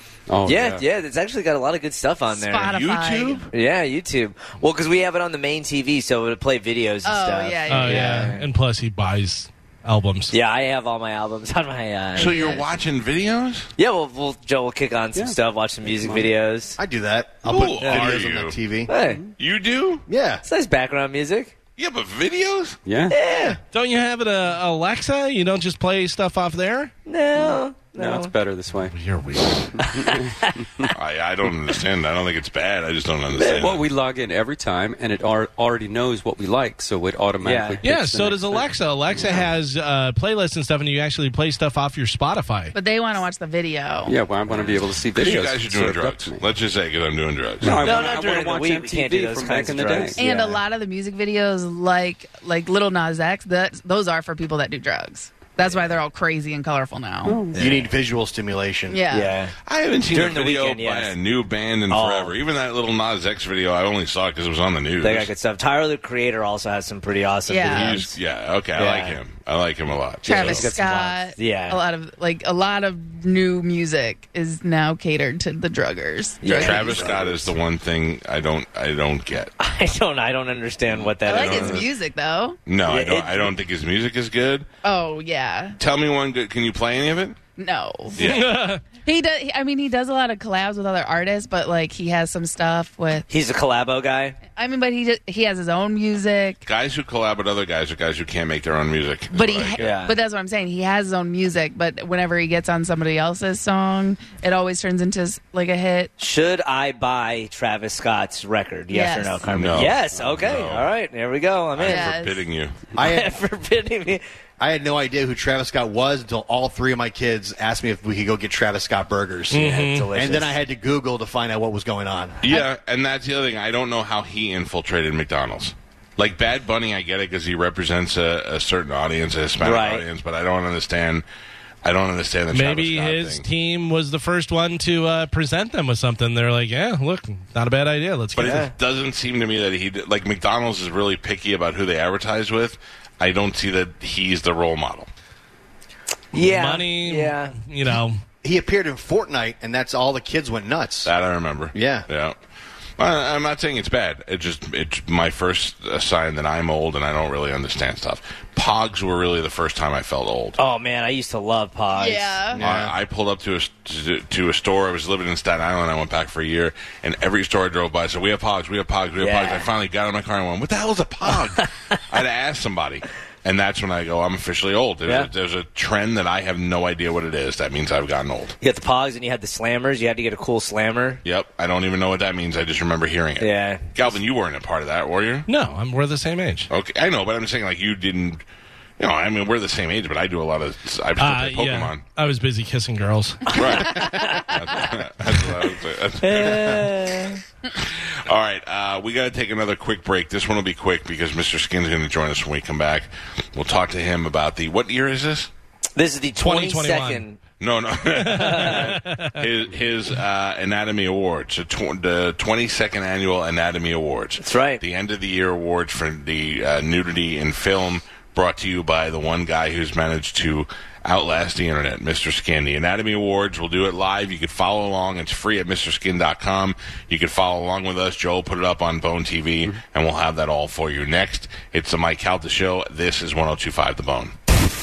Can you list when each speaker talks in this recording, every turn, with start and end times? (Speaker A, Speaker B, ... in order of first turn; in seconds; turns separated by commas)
Speaker A: 0.3-0.8, Speaker B: 0.4-2.9, Speaker C: 2.3-3.5, Speaker D: 2.7-3.5, Speaker B: 3.5-8.4, Speaker C: 7.0-8.2, Speaker E: 7.7-10.3, Speaker B: 10.3-12.4, Speaker D: 12.1-13.7, Speaker C: 12.2-12.6, Speaker B: 13.8-16.8, Speaker A: 15.1-16.3, Speaker F: 16.8-18.9, Speaker D: 17.4-18.6, Speaker B: 17.8-18.2, Speaker B: 18.9-19.2, Speaker A: 19.0-19.3, Speaker D: 19.4-20.1, Speaker F: 20.1-20.4, Speaker B: 20.4-21.5, Speaker D: 21.8-22.8, Speaker A: 22.8-23.2, Speaker B: 23.1-23.6, Speaker E: 23.7-26.9, Speaker B: 27.1-28.3, Speaker A: 27.3-28.9, Speaker E: 28.9-29.7, Speaker B: 29.9-30.3, Speaker A: 29.9-30.9, Speaker D: 30.9-33.9, Speaker B: 33.3-33.7, Speaker A: 33.3-39.5, Speaker B: 37.4-37.9, Speaker E: 37.8-42.7, Speaker C: 42.7-44.1, Speaker A: 44.0-46.6, Speaker D: 45.1-47.9, Speaker A: 47.6-50.2, Speaker B: 47.7-50.6, Speaker C: 50.2-57.4, Speaker A: 57.2-57.6, Speaker B: 57.5-57.9, Speaker F: 57.5-59.0, Speaker C: 58.9-59.4, Speaker B: 59.1-59.5, Speaker D: 59.6-65.3, Speaker B: 60.0-61.2, Speaker B: 61.9-62.4, Speaker B: 65.0-68.1, Speaker C: 67.5-68.1, Speaker D: 67.7-70.4, Speaker B: 68.7-69.2, Speaker B: 70.2-71.8, Speaker C: 70.2-77.1, Speaker A: 70.3-70.7, Speaker B: 76.4-77.5, Speaker D: 76.6-79.5, Speaker B: 79.6-81.9, Speaker C: 81.2-82.6, Speaker D: 81.3-81.9, Speaker D: 82.7-84.7, Speaker B: 82.8-83.5, Speaker C: 84.8-85.8, Speaker D: 85.8-87.4, Speaker C: 87.6-88.2, Speaker D: 88.2-88.6, Speaker E: 88.2-88.8, Speaker C: 89.0-93.3, Speaker B: 93.3-94.4, Speaker C: 94.5-96.6, Speaker D: 96.6-100.0, Speaker C: 99.3-106.1, Speaker B: 99.8-100.2, Speaker B: 106.2-112.1, Speaker C: 108.9-109.5, Speaker D: 109.5-110.9, Speaker A: 109.9-110.6, Speaker D: 111.7-112.9, Speaker C: 111.9-112.5, Speaker F: 112.9-113.3, Speaker B: 113.0-114.2, Speaker F: 114.6-122.4, Speaker E: 119.5-120.1, Speaker B: 119.5-120.6, Speaker D: 122.4-131.2, Speaker B: 129.6-130.1, Speaker D: 131.8-133.4, Speaker E: 132.5-138.6, Speaker D: 138.3-145.1, Speaker B: 138.4-138.7, Speaker B: 146.3-147.6, Speaker E: 146.3-148.2, Speaker F: 148.4-151.1, Speaker D: 151.0-152.4, Speaker F: 151.7-152.1, Speaker D: 153.0-160.6, Speaker B: 160.6-162.6, Speaker C: 161.9-162.6, Speaker F: 162.5-162.9, Speaker D: 162.6-178.6, Speaker B: 169.2-169.7, Speaker B: 178.6-181.2, Speaker D: 181.2-185.4, Speaker B: 183.4-184.0, Speaker E: 185.5-186.7, Speaker D: 186.7-188.4, Speaker D: 189.0-192.0, Speaker E: 191.2-193.5, Speaker D: 193.4-197.0, Speaker B: 193.9-194.4, Speaker B: 196.2-197.4, Speaker D: 197.7-205.5, Speaker B: 205.9-207.4, Speaker E: 206.4-207.2, Speaker D: 207.6-234.3, Speaker E: 208.1-209.4, Speaker B: 208.3-208.9, Speaker B: 214.4-214.8